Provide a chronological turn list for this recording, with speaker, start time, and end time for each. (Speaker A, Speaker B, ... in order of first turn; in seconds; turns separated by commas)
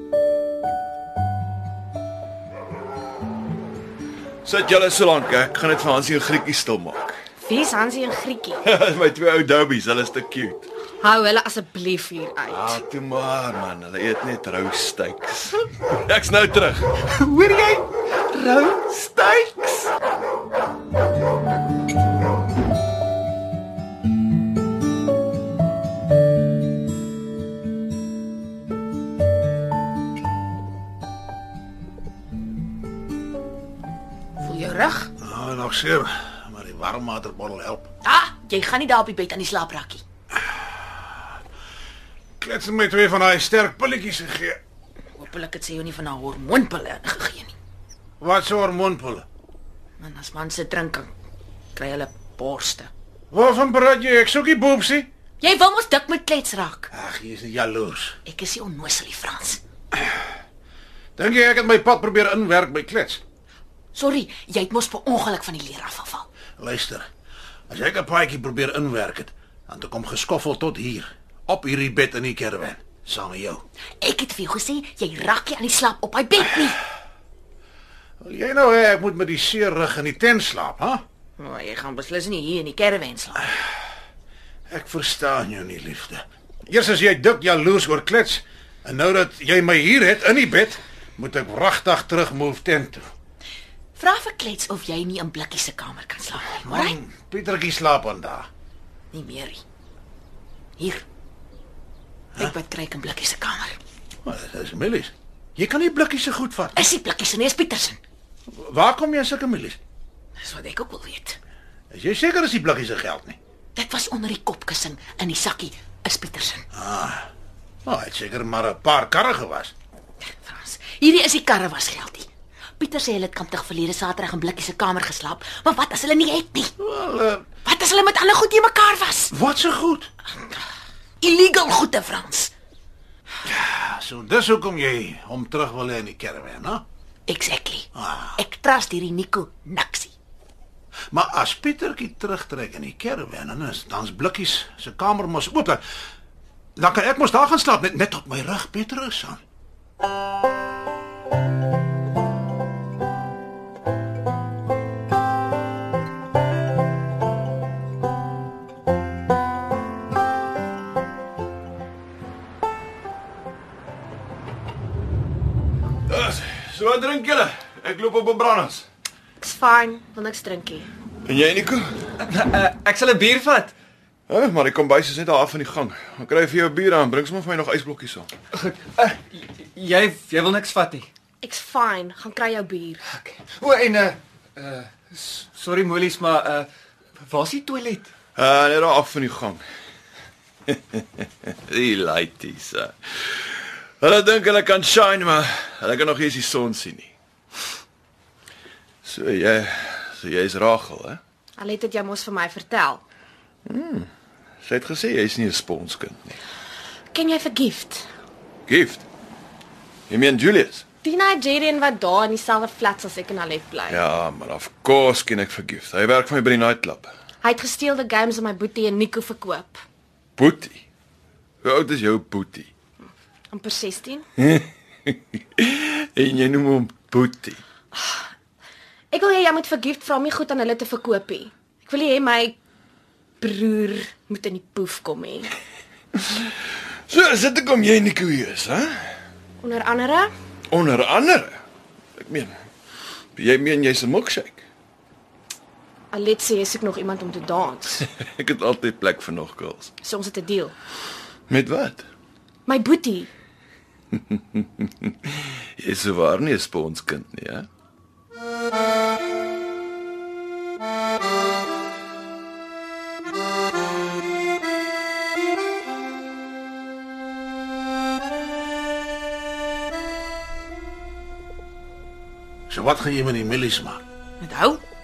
Speaker A: 4.4-7.2, Speaker B: 7.4-8.6, Speaker A: 8.6-10.7, Speaker B: 11.0-12.8, Speaker A: 12.5-17.1, Speaker C: 17.1-19.9, Speaker D: 34.4-35.1, Speaker E: 35.2-37.9, Speaker D: 38.0-40.0, Speaker E: 42.4-44.6, Speaker D: 45.2-47.5, Speaker E: 48.2-49.2, Speaker D: 50.0-51.1, Speaker D: 51.7-52.9, Speaker E: 53.3-55.1, Speaker D: 55.4-56.9, Speaker E: 56.9-58.2, Speaker D: 58.2-59.6, Speaker E: 61.1-63.2, Speaker D: 63.9-66.3, Speaker E: 66.6-67.0, Speaker E: 67.7-73.6, Speaker D: 74.0-76.8, Speaker E: 78.2-81.0, Speaker D: 81.4-83.5, Speaker E: 84.7-93.1, Speaker D: 94.0-97.0, Speaker E: 96.6-98.5, Speaker D: 99.1-99.6, Speaker D: 100.8-101.0, Speaker D: 102.4-103.8, Speaker E: 104.2-106.8, Speaker D: 106.7-108.0, Speaker E: 108.5-109.8, Speaker D: 110.4-111.4, Speaker E: 111.9-113.4, Speaker D: 113.7-116.7, Speaker E: 116.7-117.3, Speaker E: 117.8-119.7, Speaker D: 120.2-122.3, Speaker D: 122.8-126.7, Speaker E: 126.8-127.5, Speaker D: 127.6-129.3, Speaker E: 129.3-130.1, Speaker D: 131.2-132.5, Speaker E: 133.4-136.8, Speaker D: 137.3-140.1, Speaker E: 137.9-138.4, Speaker E: 141.1-145.8, Speaker E: 146.8-149.4, Speaker A: 166.1-168.8, Speaker B: 169.4-170.9, Speaker A: 171.2-171.9, Speaker C: 172.2-173.7, Speaker A: 174.3-178.3, Speaker C: 178.6-181.1, Speaker B: 181.4-183.0, Speaker C: 183.1-186.7, Speaker C: 187.2-188.1, Speaker A: 188.4-189.6, Speaker A: 190.7-197.1, Speaker A: 199.0-201.2, Speaker B: 201.6-203.0, Speaker A: 203.7-204.1, Speaker A: 204.6-206.4, Speaker B: 207.1-208.1, Speaker A: 208.7-209.0, Speaker A: 210.1-210.8, Speaker B: 211.0-214.0, Speaker A: 213.9-217.1, Speaker B: 217.4-219.8, Speaker A: 220.4-220.8, Speaker A: 221.6-222.7, Speaker B: 223.5-224.2, Speaker A: 224.4-227.6, Speaker B: 227.9-228.3, Speaker B: 229.1-232.5, Speaker B: 233.4-235.5, Speaker A: 236.2-239.2, Speaker B: 239.6-240.3, Speaker A: 240.7-241.6, Speaker A: 242.2-242.5, Speaker A: 243.3-244.6, Speaker B: 246.1-248.1, Speaker A: 248.1-249.9, Speaker B: 250.0-250.7, Speaker A: 251.5-252.1, Speaker B: 252.7-253.3, Speaker A: 254.3-255.1, Speaker A: 255.8-257.7, Speaker E: 272.7-274.0, Speaker D: 274.4-274.8